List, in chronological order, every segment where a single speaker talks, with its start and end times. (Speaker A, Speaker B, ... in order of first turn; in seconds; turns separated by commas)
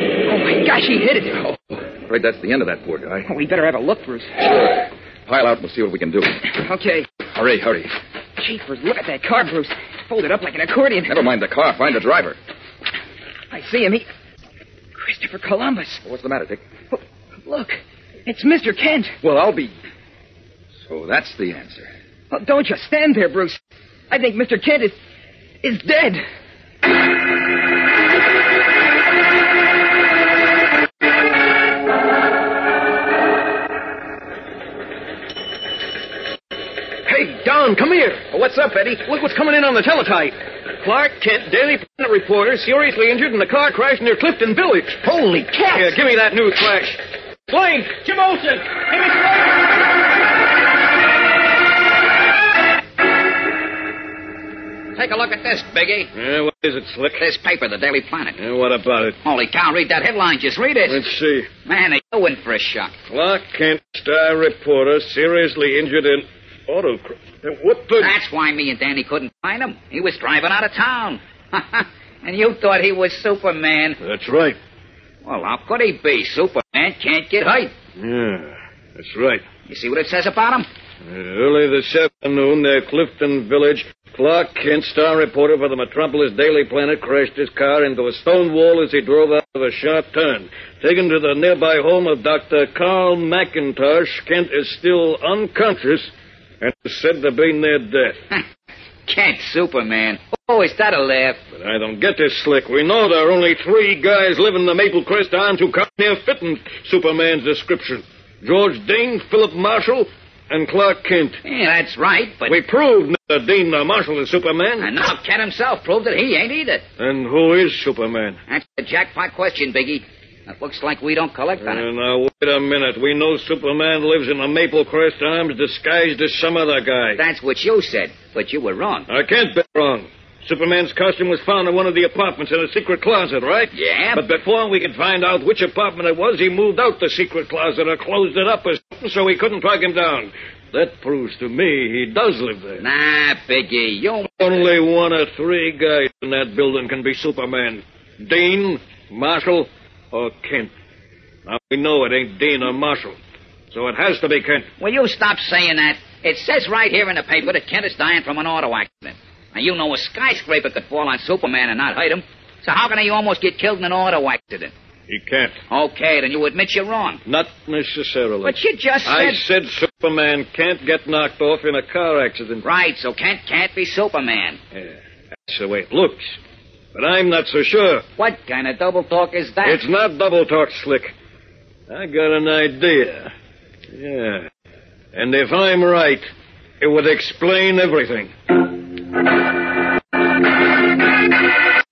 Speaker A: 0.3-1.4, Speaker B: 1.3-3.3, Speaker A: 3.2-4.3, Speaker B: 4.4-6.5, Speaker A: 6.6-7.1, Speaker B: 7.3-7.9, Speaker A: 8.4-11.1, Speaker B: 11.1-12.4, Speaker A: 13.5-14.1, Speaker A: 15.0-16.0, Speaker B: 16.0-16.6, Speaker A: 16.9-19.1, Speaker B: 19.2-19.7, Speaker B: 20.9-21.9, Speaker A: 22.3-23.6, Speaker A: 24.1-24.9, Speaker A: 25.6-26.2, Speaker C: 37.1-49.2, Speaker D: 55.0-56.1, Speaker C: 56.1-57.2, Speaker D: 57.2-58.4, Speaker C: 58.4-59.2, Speaker D: 59.2-61.1, Speaker C: 60.9-61.5, Speaker D: 61.7-62.9, Speaker C: 63.1-68.2, Speaker D: 68.0-74.0, Speaker C: 74.0-74.6, Speaker D: 75.2-77.7, Speaker C: 78.0-79.4, Speaker D: 79.7-80.7, Speaker C: 81.0-96.1, Speaker C: 96.6-98.2, Speaker D: 99.1-101.5, Speaker C: 101.5-111.4, Speaker D: 111.4-112.6, Speaker C: 112.5-114.9, Speaker D: 114.8-116.8, Speaker C: 117.0-118.4, Speaker D: 118.5-121.9, Speaker C: 121.6-127.2, Speaker D: 127.2-129.1, Speaker C: 129.1-142.8, Speaker D: 133.7-134.3, Speaker D: 142.8-144.6, Speaker C: 144.4-150.7, Speaker C: 151.5-153.2, Speaker C: 153.7-154.7, Speaker D: 154.8-164.7, Speaker C: 165.1-165.6, Speaker D: 165.7-167.2, Speaker C: 167.3-172.6, Speaker D: 168.4-169.4, Speaker D: 172.6-174.6, Speaker C: 174.7-176.4, Speaker C: 176.9-178.1, Speaker D: 178.2-179.8, Speaker C: 179.6-181.1, Speaker C: 181.9-183.3, Speaker C: 183.9-184.5, Speaker C: 185.1-186.2, Speaker C: 186.8-188.3